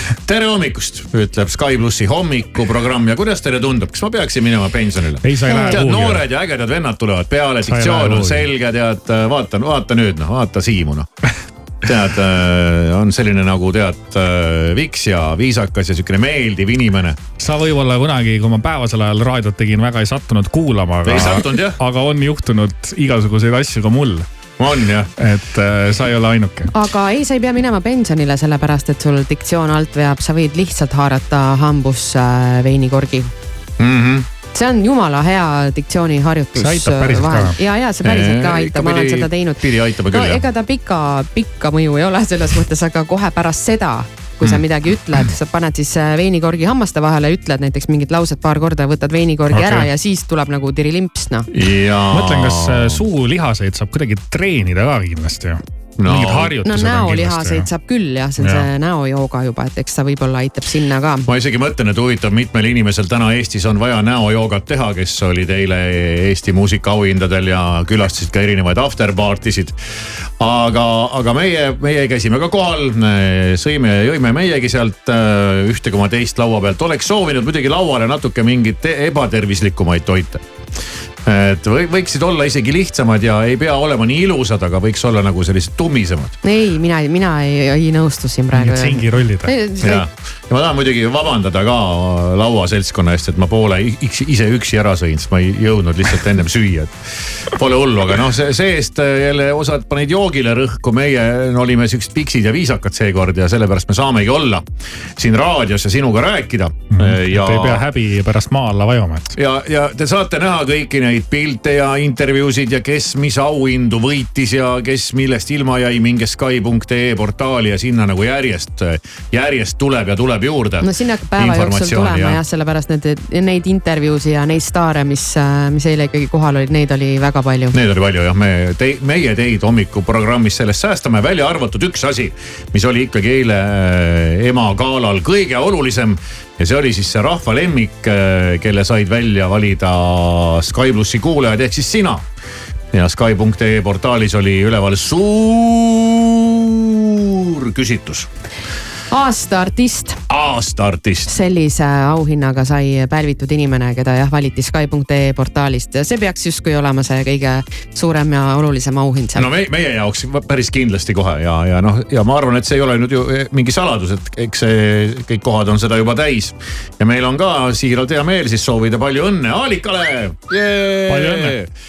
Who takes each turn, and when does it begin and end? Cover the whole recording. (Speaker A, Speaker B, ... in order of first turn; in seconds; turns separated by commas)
Speaker A: 0.2-11.1, Speaker B: 5.2-6.2, Speaker B: 7.7-8.5, Speaker A: 11.8-17.2, Speaker B: 17.4-24.2, Speaker A: 21.0-21.8, Speaker A: 24.6-25.1, Speaker B: 25.2-26.7, Speaker C: 26.7-33.3, Speaker A: 33.8-34.3, Speaker C: 34.5-51.5, Speaker B: 36.6-37.5, Speaker A: 38.0-40.4, Speaker B: 49.5-49.9, Speaker A: 51.5-53.0, Speaker B: 52.1-57.7, Speaker A: 56.0-56.6, Speaker C: 56.6-61.3, Speaker B: 58.4-58.6, Speaker A: 61.3-69.8, Speaker A: 70.4-80.4, Speaker A: 81.2-86.3, Speaker C: 86.4-90.0, Speaker B: 88.5-89.5, Speaker A: 89.8-96.9, Speaker A: 97.5-104.6, Speaker A: 105.2-107.8, Speaker B: 106.9-109.3, Speaker A: 109.3-122.4, Speaker C: 120.8-127.8, Speaker A: 127.7-142.2, Speaker A: 142.9-148.3, Speaker C: 149.1-150.2, Speaker A: 150.3-151.3, Speaker C: 151.3-159.5, Speaker A: 159.3-171.7, Speaker B: 171.1-171.6